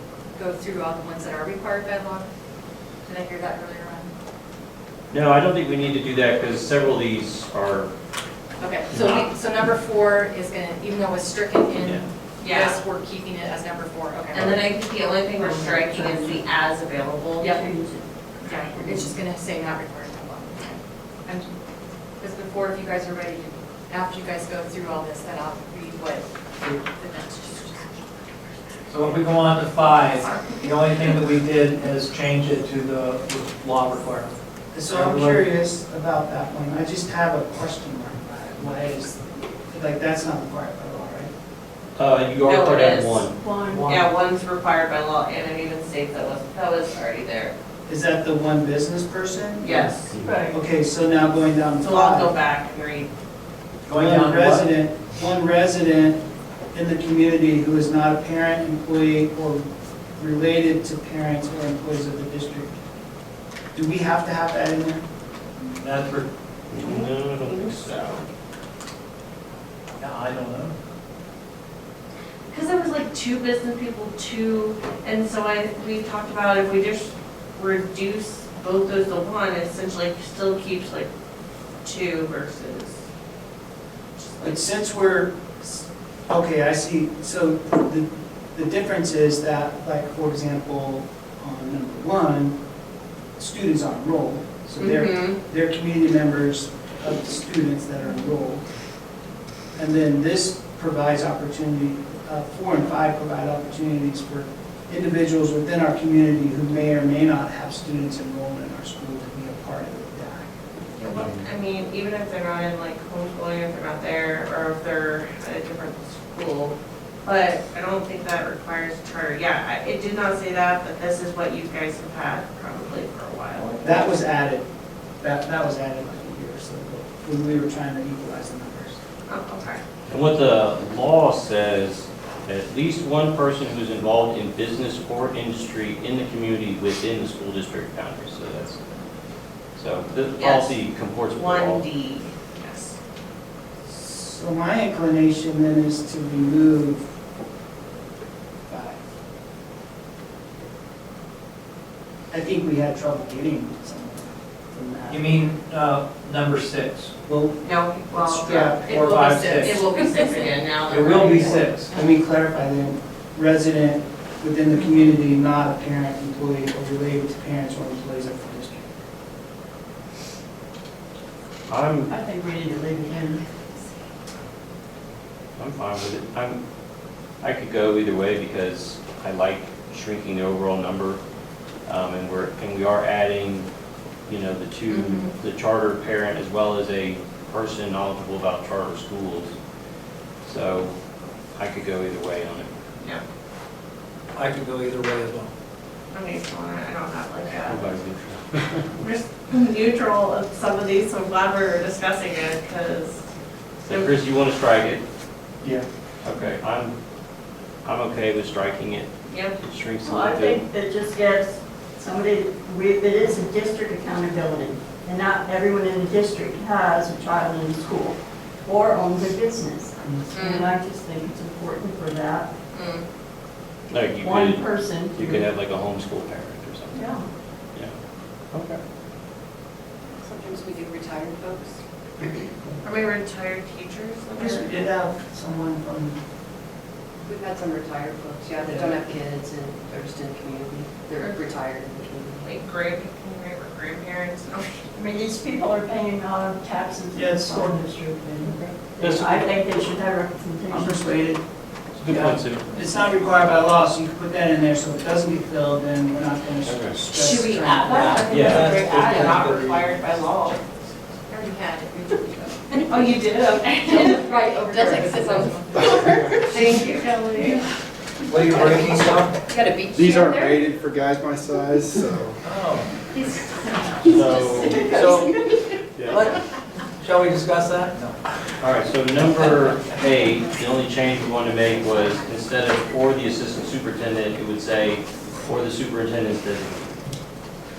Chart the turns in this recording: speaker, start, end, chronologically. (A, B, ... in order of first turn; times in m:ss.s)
0:00.4-0:02.3 A
0:03.0-0:04.1 A
0:05.1-0:07.9 B
0:08.6-0:14.5 A
0:08.9-0:09.3 B
0:12.4-0:12.8 C
0:14.3-0:17.5 C
0:14.4-0:14.6 B
0:15.4-0:16.5 D
0:17.4-0:18.1 D
0:18.4-0:18.8 C
0:18.4-0:21.6 A
0:18.7-0:19.2 D
0:22.2-0:30.6 A
0:28.9-0:34.4 E
0:34.7-0:41.3 F
0:34.9-0:35.5 E
0:42.0-0:43.4 B
0:42.4-0:43.3 C
0:43.4-0:43.9 D
0:43.7-0:44.1 E
0:43.8-0:47.5 C
0:47.9-0:52.4 F
0:49.6-0:50.1 C
0:50.1-0:50.4 B
0:50.2-0:50.6 D
0:51.8-0:53.1 C
0:53.9-0:54.7 E
0:53.9-0:59.7 F
1:00.2-1:02.8 F
1:03.7-1:05.0 F
1:05.8-1:06.3 E
1:06.7-1:08.2 B
1:06.8-1:07.9 C
1:10.0-1:10.8 E
1:12.5-1:21.1 C
1:21.8-1:23.0 C
1:24.4-1:24.7 C
1:24.4-1:32.6 F
1:33.4-1:38.6 F
1:34.8-1:35.4 C
1:39.8-1:50.5 F
1:51.0-2:04.2 C
1:51.1-1:51.5 B
2:03.8-2:04.7 F
2:05.2-2:09.0 F
2:09.3-2:09.8 C
2:10.1-2:18.8 B
2:19.8-2:21.9 B
2:20.4-2:20.8 C
2:21.3-2:23.0 C
2:23.8-2:27.1 F
2:28.7-2:29.0 F
2:32.3-2:35.4 F
2:35.1-2:37.2 E
2:37.3-2:37.5 F
2:37.6-2:41.8 C
2:38.1-2:38.8 F
2:38.4-2:42.1 A
2:38.9-2:39.8 E
2:40.9-2:41.9 E
2:41.9-2:49.0 F
2:51.7-2:52.1 B
2:52.1-2:53.4 D
2:55.6-2:56.6 B
2:57.4-3:01.2 B
3:01.9-3:03.7 B
3:04.3-3:09.5 B
3:04.9-3:05.3 C
3:10.4-3:11.0 B
3:11.6-3:12.7 B
3:14.3-3:15.5 E
3:16.1-3:17.9 C
3:17.5-3:19.0 B
3:19.0-3:23.2 C
3:23.9-3:25.0 B
3:26.2-3:27.0 B
3:27.8-3:30.6 B
3:29.3-3:29.6 C
3:30.0-3:42.5 D
3:40.0-3:40.3 F
3:40.3-3:40.8 C
3:42.7-3:43.0 C
3:43.9-3:47.2 B
3:44.2-3:45.5 D
3:46.9-3:47.3 D
3:48.5-3:48.8 B
3:50.2-3:52.5 G
3:52.8-3:54.7 C
3:54.4-3:56.2 F
3:57.3-4:02.6 G
4:01.2-4:01.5 C
4:02.4-4:04.8 C
4:05.0-4:11.0 D
4:07.2-4:07.8 F
4:08.6-4:09.5 B
4:10.7-4:11.4 F
4:12.0-4:12.7 B
4:12.7-4:18.2 F
4:16.6-4:17.0 B
4:17.2-4:20.6 C
4:18.0-4:20.6 E
4:18.3-4:18.7 B
4:21.3-4:23.2 A
4:22.9-4:24.2 C
4:23.8-4:26.4 A
4:24.8-4:26.3 G
4:26.5-4:27.6 C
4:28.3-4:29.4 E
4:28.4-4:29.1 G
4:29.9-4:32.4 H
4:32.4-4:32.9 E
4:33.9-4:35.6 D
4:34.1-4:34.9 B
4:34.2-4:34.6 A
4:35.0-4:35.4 E
4:36.1-4:36.4 E
4:37.0-4:38.2 E
4:38.6-4:47.0 B